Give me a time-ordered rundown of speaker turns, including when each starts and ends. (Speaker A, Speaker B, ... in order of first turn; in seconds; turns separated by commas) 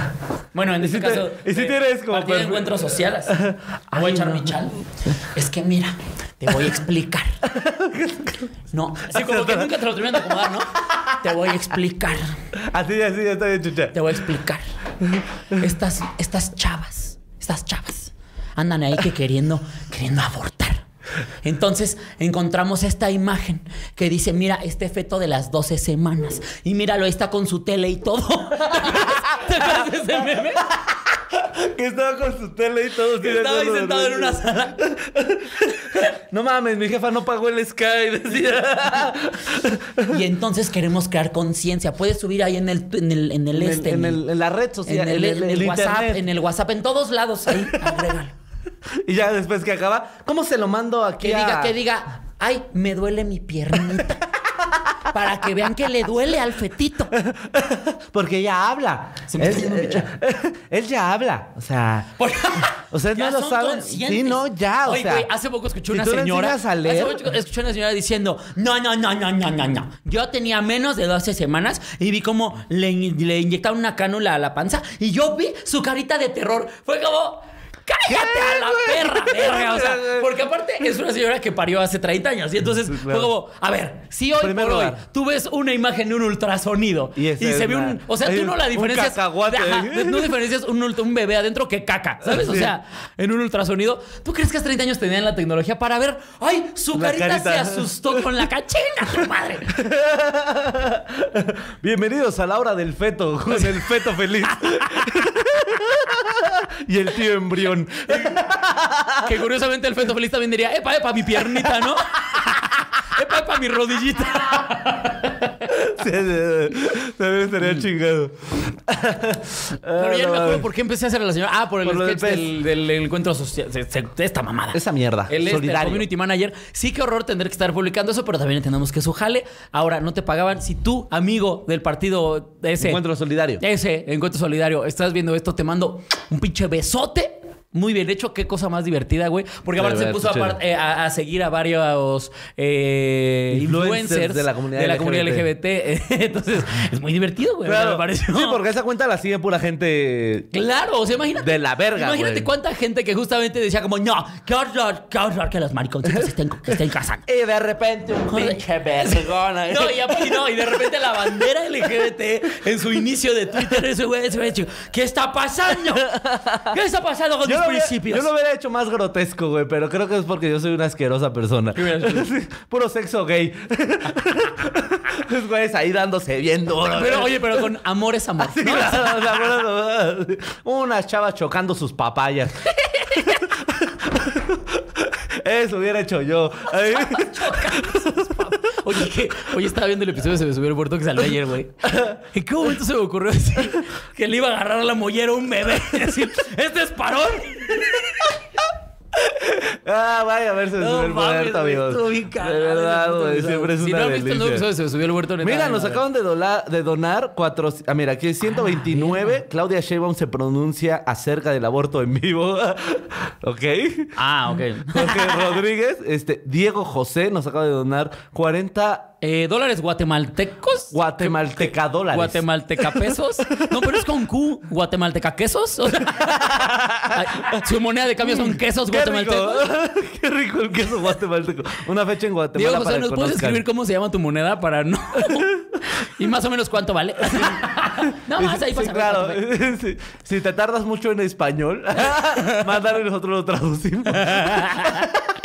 Speaker A: 0.5-3.4, Speaker B: 0.8-4.7, Speaker A: 3.9-7.4, Speaker B: 7.4-8.5, Speaker A: 8.7-12.4, Speaker B: 9.1-11.2, Speaker B: 12.6-14.0, Speaker A: 13.9-14.6, Speaker B: 15.0-15.6, Speaker A: 15.5-20.8, Speaker A: 21.4-30.7, Speaker B: 28.7-40.2, Speaker A: 33.2-34.8, Speaker A: 40.0-44.2, Speaker B: 43.5-46.3, Speaker A: 44.9-48.3, Speaker B: 47.5-48.1, Speaker B: 49.0-51.8, Speaker A: 51.2-54.2, Speaker A: 55.1-57.1, Speaker B: 57.1-62.1, Speaker A: 59.3-60.1, Speaker A: 62.2-99.7, Speaker B: 62.7-65.3, Speaker B: 65.9-67.2, Speaker B: 78.1-80.3, Speaker B: 82.9-83.3, Speaker B: 84.4-85.0, Speaker B: 87.2-90.4, Speaker B: 92.2-92.7, Speaker B: 96.9-98.4, Speaker B: 99.7-109.4, Speaker A: 103.5-103.8, Speaker A: 109.2-115.7, Speaker B: 115.7-120.7, Speaker A: 120.0-133.0, Speaker B: 121.8-122.5, Speaker B: 124.7-126.1, Speaker B: 132.8-133.6, Speaker A: 133.6-148.6, Speaker B: 139.8-140.6, Speaker B: 143.5-145.5, Speaker B: 147.7-150.5, Speaker A: 150.5-157.3, Speaker B: 151.4-152.5, Speaker B: 157.3-160.7, Speaker A: 158.3-168.3, Speaker B: 165.9-166.8, Speaker B: 167.4-177.7, Speaker A: 171.8-172.3, Speaker A: 176.9-179.5, Speaker B: 178.4-188.9, Speaker A: 182.8-183.5, Speaker A: 186.8-198.4, Speaker B: 191.8-192.2, Speaker B: 199.1-204.7, Speaker A: 200.8-206.0, Speaker B: 205.4-214.2, Speaker A: 208.7-209.3, Speaker A: 214.2-215.6, Speaker B: 214.9-219.1, Speaker A: 219.2-229.7, Speaker B: 220.9-224.0, Speaker B: 226.1-227.7, Speaker B: 228.2-233.6, Speaker A: 232.6-239.4, Speaker B: 235.2-235.6, Speaker B: 238.1-245.2, Speaker A: 244.1-245.1